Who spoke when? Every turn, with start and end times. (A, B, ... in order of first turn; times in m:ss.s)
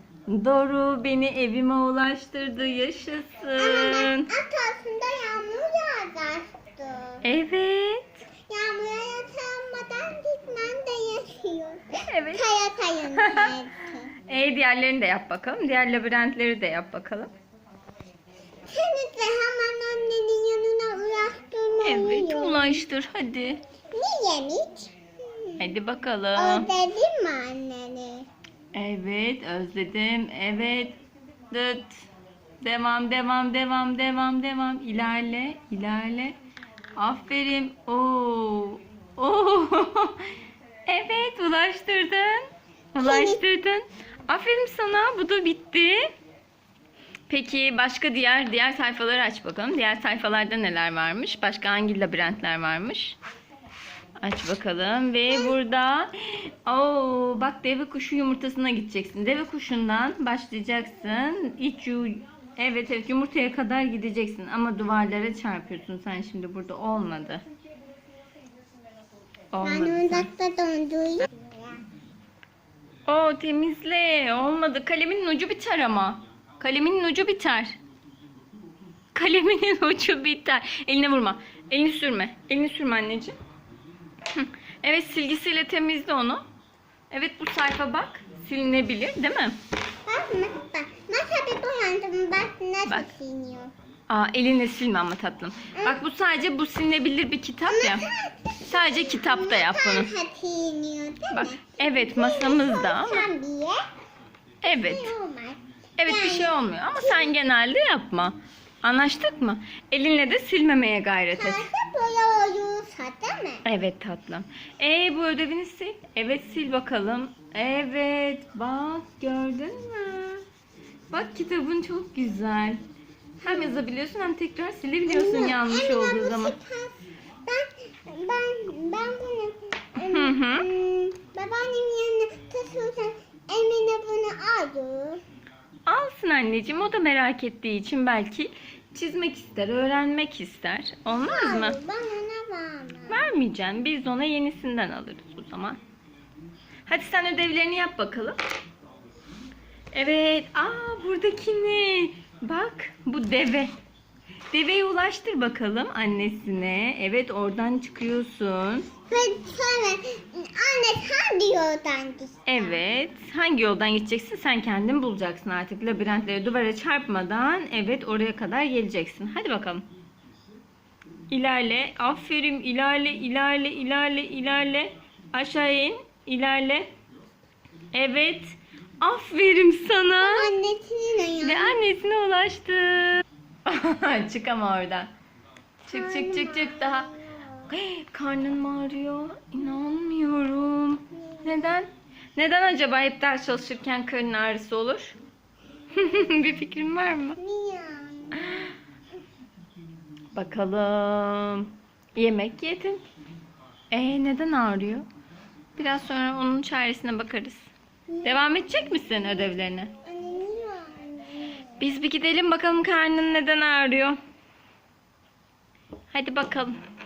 0:00.3-0:04.3 A
0:03.6-0:07.3 B
0:07.2-0:08.2 A
0:08.5-0:14.1 B
0:12.1-0:12.5 A
0:13.2-0:13.5 A
0:14.3-0:17.3 A
0:18.7-0:22.8 B
0:21.8-0:23.6 A
0:23.9-0:25.6 B
0:25.6-0:26.7 A
0:26.4-0:28.3 B
0:28.7-0:31.0 A
0:31.5-0:32.0 A
0:32.6-0:36.4 A
0:37.0-0:40.2 A
0:40.9-0:46.0 A
0:43.0-0:43.4 B
0:47.3-0:53.2 A
0:54.2-1:07.4 A
1:09.5-1:10.3 A
1:09.6-1:11.8 B
1:13.1-1:17.8 A
1:19.1-1:23.4 A
1:24.3-1:26.4 A
1:27.1-1:29.6 A
1:30.1-1:33.7 B
1:34.1-1:38.0 A
1:37.7-1:43.8 B
1:38.7-1:40.1 A
1:41.3-1:43.3 A
1:44.6-1:45.1 A
1:44.6-1:47.3 B
1:46.0-1:51.7 A
1:51.4-1:53.6 B
1:53.6-2:00.4 A
2:01.1-2:02.8 A
2:03.4-2:03.8 B
2:03.4-2:06.6 A
2:05.1-2:15.2 B
2:10.0-2:10.7 A
2:15.9-2:21.8 A
2:21.2-2:23.3 B
2:23.1-2:25.8 A
2:26.9-2:28.4 A
2:29.9-2:33.8 A
2:34.5-2:38.9 A
2:39.1-2:42.8 B
2:42.5-2:49.9 A
2:51.3-2:56.9 A
2:57.9-3:00.5 A
3:00.2-3:01.8 B
3:01.4-3:05.1 A
3:05.9-3:07.1 A
3:05.9-3:07.7 B
3:07.7-3:15.2 A
3:11.1-3:11.8 B
3:15.9-3:17.4 A
3:17.4-3:18.7 B
3:20.3-3:23.0 A
3:23.9-3:25.1 A
3:25.8-3:27.7 A
3:28.1-3:28.6 B
3:28.2-3:29.9 A
3:30.0-3:31.8 B
3:31.8-3:34.2 A
3:36.1-3:36.8 A